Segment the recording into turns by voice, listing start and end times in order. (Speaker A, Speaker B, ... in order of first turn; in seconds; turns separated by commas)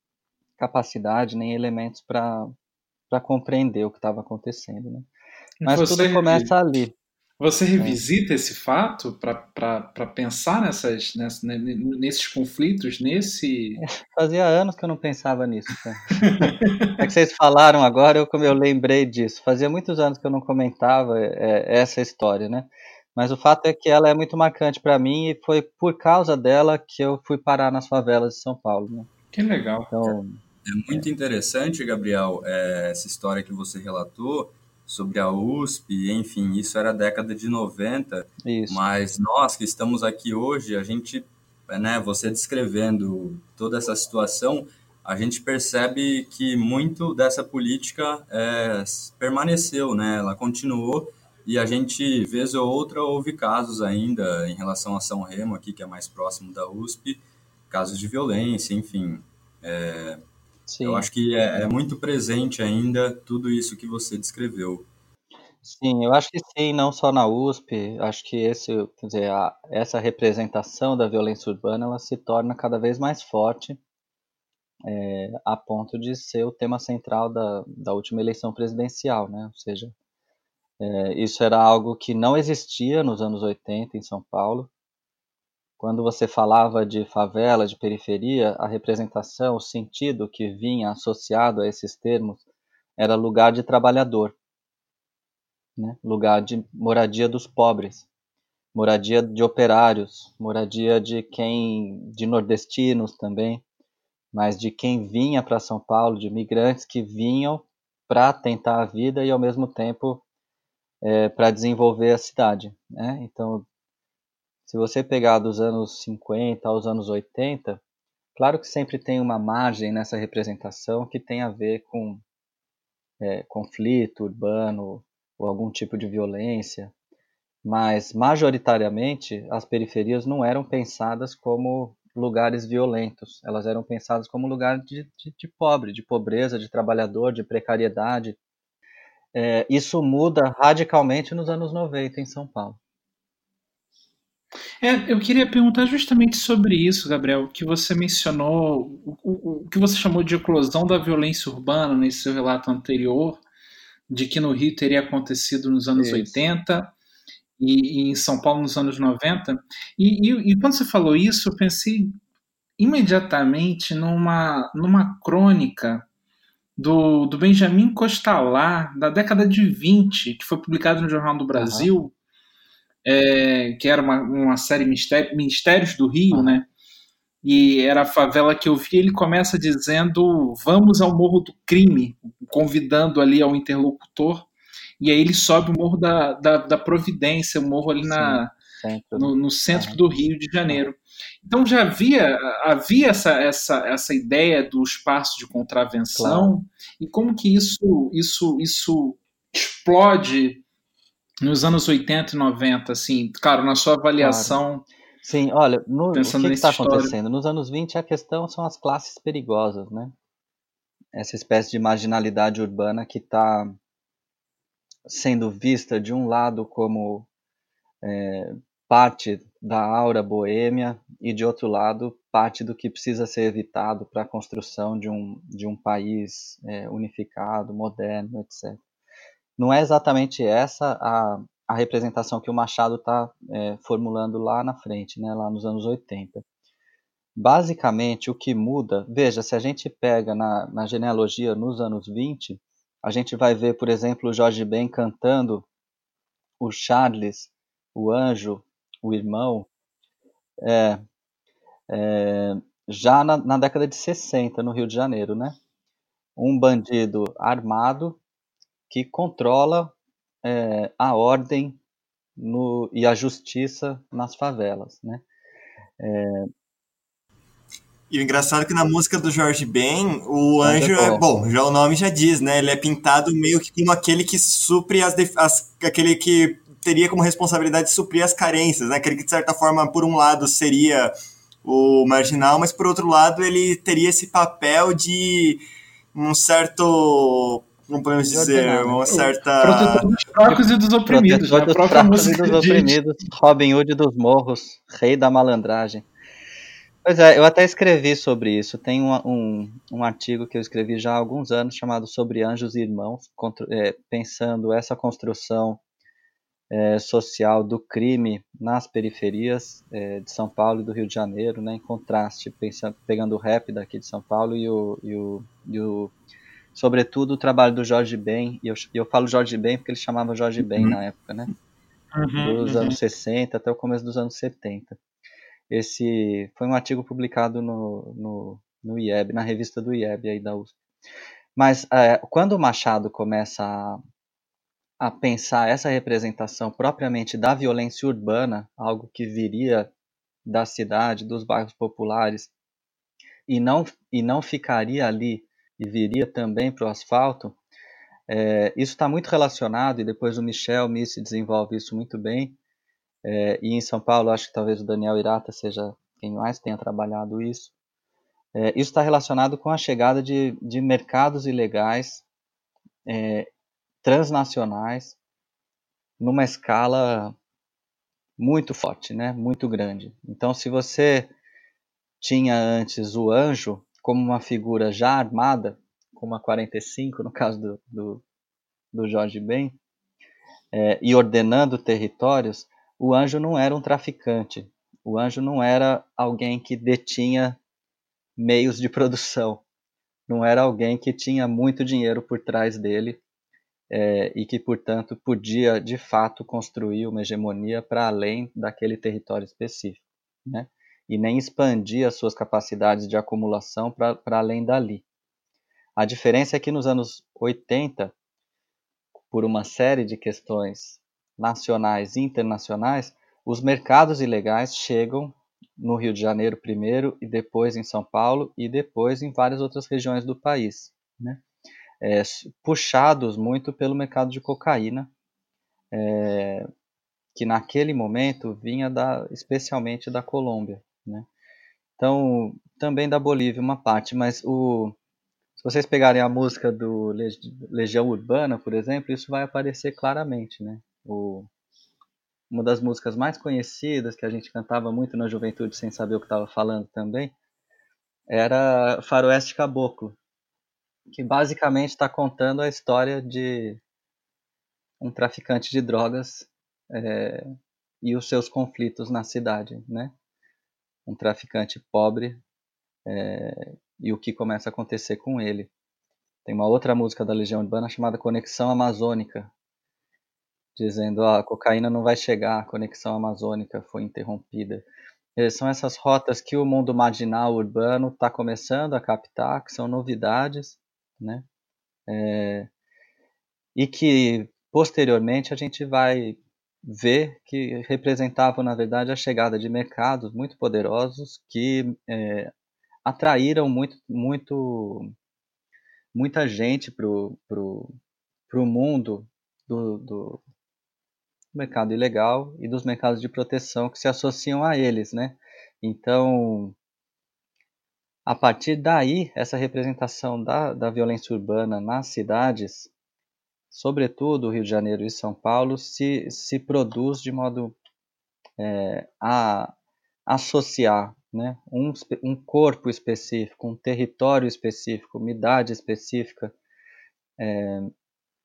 Speaker A: 0.6-2.5, Speaker A: 3.1-5.1, Speaker B: 5.6-6.5, Speaker A: 5.6-6.9, Speaker B: 7.4-13.8, Speaker A: 13.8-29.1, Speaker B: 16.2-16.9, Speaker B: 29.3-29.9, Speaker A: 29.9-30.4, Speaker C: 30.6-60.2, Speaker A: 38.4-38.8, Speaker A: 60.7-61.1, Speaker C: 60.8-64.9, Speaker A: 65.6-73.8, Speaker A: 74.9-79.9, Speaker A: 80.8-84.7, Speaker A: 85.8-92.4, Speaker A: 93.0-94.3, Speaker A: 95.8-98.0, Speaker A: 98.7-103.6, Speaker A: 104.3-110.2, Speaker A: 111.0-113.7, Speaker A: 114.7-117.8, Speaker A: 118.3-122.2, Speaker A: 123.2-126.9, Speaker A: 127.6-138.4, Speaker A: 139.3-142.8, Speaker B: 144.8-153.4, Speaker B: 154.1-156.9, Speaker A: 155.9-156.4, Speaker B: 157.6-162.2, Speaker B: 162.8-166.1, Speaker B: 166.8-172.1, Speaker A: 171.5-171.9, Speaker B: 173.0-176.7, Speaker B: 177.4-184.5, Speaker B: 185.0-188.5, Speaker A: 188.0-190.0, Speaker B: 189.2-200.6, Speaker A: 196.1-196.5, Speaker B: 201.4-204.8, Speaker A: 204.2-204.6, Speaker A: 205.2-210.1, Speaker B: 206.1-207.1, Speaker A: 211.1-213.7, Speaker A: 215.1-217.3, Speaker A: 218.0-228.8, Speaker A: 229.6-236.4, Speaker A: 237.3-245.7, Speaker A: 246.6-249.7, Speaker A: 250.6-251.0, Speaker A: 251.9-255.6, Speaker A: 256.4-258.2, Speaker A: 258.9-261.8, Speaker A: 262.4-265.2, Speaker A: 266.0-266.5, Speaker D: 268.1-281.1, Speaker A: 270.6-271.2, Speaker D: 281.6-285.6, Speaker D: 286.1-290.0, Speaker A: 288.2-289.3, Speaker B: 289.6-292.9, Speaker A: 290.4-296.1, Speaker A: 297.0-305.8, Speaker A: 306.7-316.1, Speaker A: 316.7-321.5, Speaker B: 322.1-323.0, Speaker A: 322.4-324.9, Speaker A: 325.7-330.7, Speaker A: 331.6-334.0, Speaker A: 335.0-339.9, Speaker A: 340.4-342.5, Speaker A: 343.5-347.6, Speaker A: 348.3-352.6, Speaker A: 353.2-357.7, Speaker A: 358.5-362.2, Speaker A: 363.1-363.5, Speaker A: 364.0-365.1, Speaker A: 366.2-367.3, Speaker A: 368.4-371.3, Speaker A: 372.2-378.2, Speaker A: 378.9-379.8, Speaker A: 380.7-387.6, Speaker A: 388.4-389.6, Speaker A: 390.3-393.2, Speaker A: 393.9-405.0, Speaker A: 406.0-408.1, Speaker A: 409.3-421.4, Speaker A: 422.0-425.1, Speaker A: 425.9-426.6, Speaker A: 427.3-431.3, Speaker A: 432.0-434.9, Speaker A: 435.6-441.5, Speaker A: 442.5-447.3, Speaker A: 448.3-450.2, Speaker A: 451.1-453.8, Speaker A: 455.0-457.4, Speaker A: 458.0-460.1, Speaker A: 461.1-462.4, Speaker A: 463.1-465.7, Speaker A: 466.4-469.5, Speaker A: 470.7-474.8, Speaker A: 475.4-481.4, Speaker A: 482.1-482.7, Speaker A: 483.7-492.5, Speaker A: 493.0-495.1, Speaker A: 496.1-497.9, Speaker A: 498.5-500.4, Speaker A: 501.5-506.7, Speaker A: 508.2-512.9, Speaker A: 513.7-517.8, Speaker A: 518.6-519.7, Speaker A: 520.3-526.5, Speaker A: 527.4-527.9